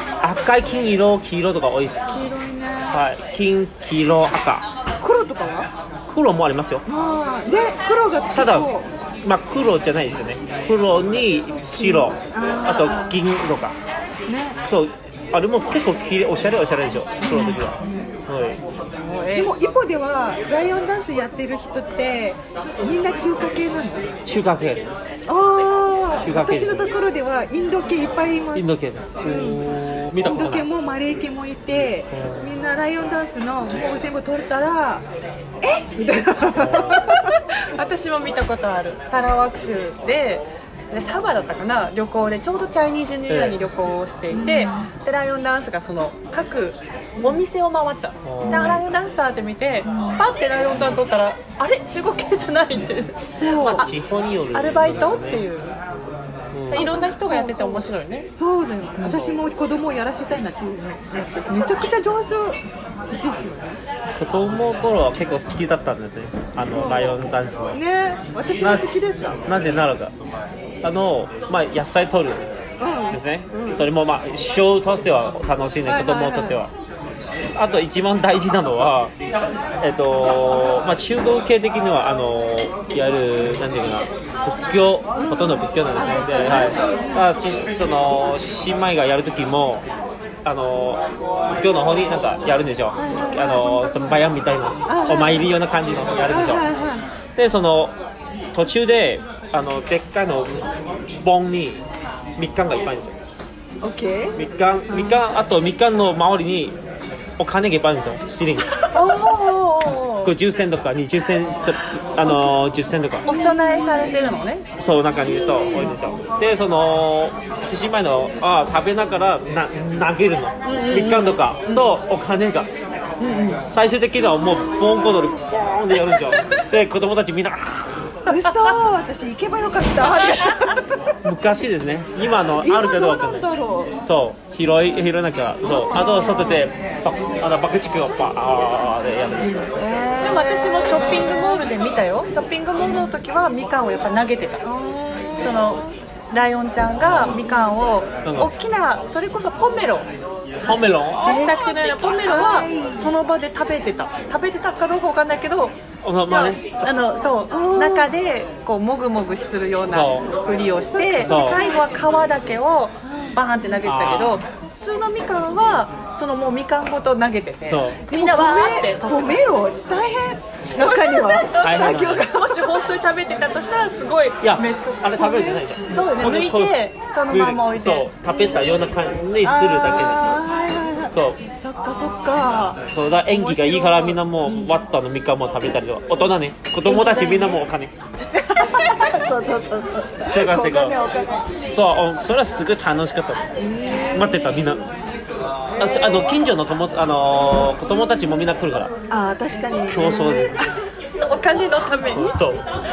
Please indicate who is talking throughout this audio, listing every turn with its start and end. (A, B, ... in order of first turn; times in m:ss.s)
0:00.2-0:02.0 A
0:02.1-0:03.0 B
0:02.9-0:04.6 A
0:05.0-0:05.7 B
0:06.1-0:06.8 A
0:06.8-0:08.9 B
0:08.3-0:08.7 A
0:09.2-0:13.8 A
0:11.8-0:13.2 B
0:14.3-0:14.6 B
0:14.6-0:17.8 A
0:17.2-0:18.1 B
0:18.3-0:18.6 A
0:19.0-0:19.5 C
0:19.3-0:24.1 B
0:24.2-0:24.8 A
0:25.3-0:28.7 B
0:26.2-0:26.9 A
0:28.5-0:30.7 A
0:29.2-0:35.0 B
0:32.1-0:32.5 A
0:35.6-0:37.4 B
0:36.5-0:37.2 A
0:37.2-0:53.9 C
0:43.3-0:43.6 A
0:44.3-0:44.9 B
0:48.2-0:48.8 A
0:48.4-0:48.8 B
0:49.8-0:50.2 B
0:53.4-0:53.8 B
0:53.4-0:55.4 A
0:54.5-0:55.8 C
0:56.5-0:56.9 A
0:56.7-0:58.3 C
0:56.7-1:03.8 B
0:59.0-0:59.4 A
1:04.1-1:07.8 A
1:06.6-1:07.1 B
1:07.7-1:09.4 B
1:08.6-1:08.9 A
1:09.5-1:10.1 A
1:10.8-1:12.5 A
1:12.8-1:13.8 B
1:13.1-1:16.7 A
1:15.8-1:16.6 B
1:17.5-1:19.1 A
1:19.8-1:29.8 A
1:25.2-1:27.3 B
1:30.4-1:36.6 A
1:33.0-1:33.9 B
1:34.9-1:35.5 B
1:36.2-1:37.0 B
1:37.4-1:38.0 A
1:38.5-1:40.6 A
1:41.2-1:41.8 A
1:42.4-1:43.2 A
1:43.8-1:44.4 B
1:44.4-1:46.8 A
1:44.9-1:45.2 B
1:47.4-1:48.7 A
1:48.9-1:50.3 C
1:50.2-1:53.2 A
1:53.2-1:54.4 B
1:53.2-1:54.6 C
1:54.8-2:02.7 A
1:55.3-1:55.9 B
2:00.6-2:01.9 C
2:03.2-2:03.6 C
2:03.7-2:08.1 A
2:08.2-2:11.1 B
2:11.2-2:13.5 A
2:12.6-2:13.9 B
2:14.0-2:19.6 A
2:15.6-2:16.7 B
2:19.7-2:21.5 B
2:20.2-2:24.6 C
2:22.8-2:23.1 B
2:24.6-2:25.8 B
2:25.4-2:30.1 C
2:27.0-2:27.3 A
2:28.2-2:28.5 A
2:30.6-2:31.5 A
2:31.2-2:33.1 B
2:31.2-2:35.8 C
2:36.0-2:37.0 A
2:36.3-2:49.4 C
2:37.5-2:38.1 B
2:39.9-2:40.3 A
2:40.9-2:41.6 B
2:41.2-2:41.6 A
2:43.0-2:43.4 B
2:43.8-2:44.4 A
2:47.7-2:48.0 A
2:48.1-2:52.7 B
2:50.8-2:58.1 C
2:51.6-2:52.3 A
2:54.4-2:56.8 A
2:57.3-3:00.4 A
2:59.4-3:04.8 B
3:01.1-3:01.4 A
3:02.9-3:07.9 A
3:06.8-3:07.6 B
3:08.2-3:11.5 B
3:10.3-3:11.0 A
3:11.5-3:13.4 A
3:13.6-3:14.8 B
3:14.1-3:14.8 A
3:15.8-3:16.3 B
3:15.8-3:18.9 A
3:19.1-3:20.8 B
3:19.9-3:20.7 A
3:21.2-3:22.4 C
3:22.0-3:22.7 A